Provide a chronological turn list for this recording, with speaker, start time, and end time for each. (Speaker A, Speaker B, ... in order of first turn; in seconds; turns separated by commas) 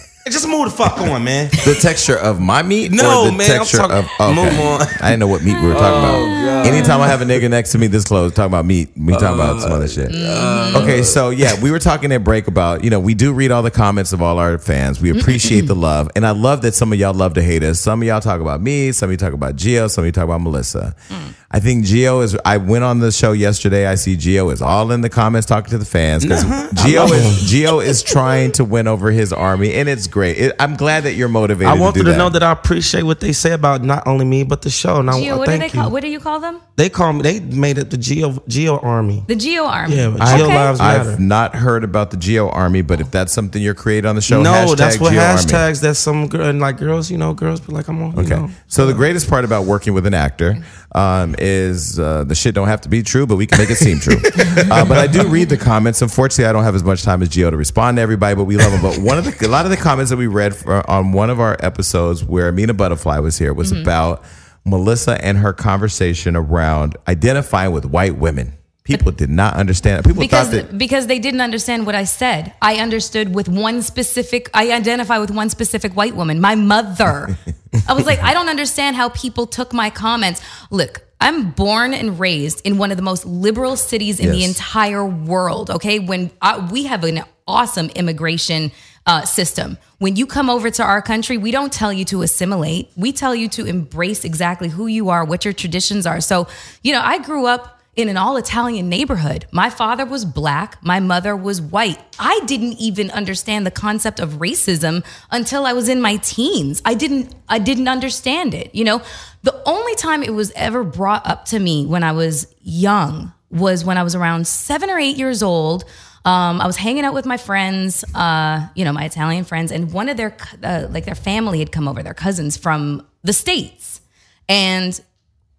Speaker A: 0.2-1.6, Speaker B: 1.6-10.2, Speaker A: 2.9-5.2, Speaker A: 5.7-7.4, Speaker C: 6.1-7.1, Speaker A: 9.1-11.5, Speaker C: 10.1-10.9, Speaker B: 10.7-20.9, Speaker C: 15.1-15.7, Speaker B: 21.5-32.3, Speaker A: 26.2-27.5, Speaker A: 31.6-35.9, Speaker C: 35.1-36.6, Speaker A: 36.8-39.3, Speaker C: 39.3-40.8, Speaker A: 39.9-41.2, Speaker B: 40.2-45.6, Speaker A: 44.3-49.0, Speaker B: 48.1-70.7, Speaker A: 54.1-55.2, Speaker C: 54.4-54.7, Speaker C: 63.6-63.9, Speaker C: 70.2-125.0, Speaker B: 84.2-84.6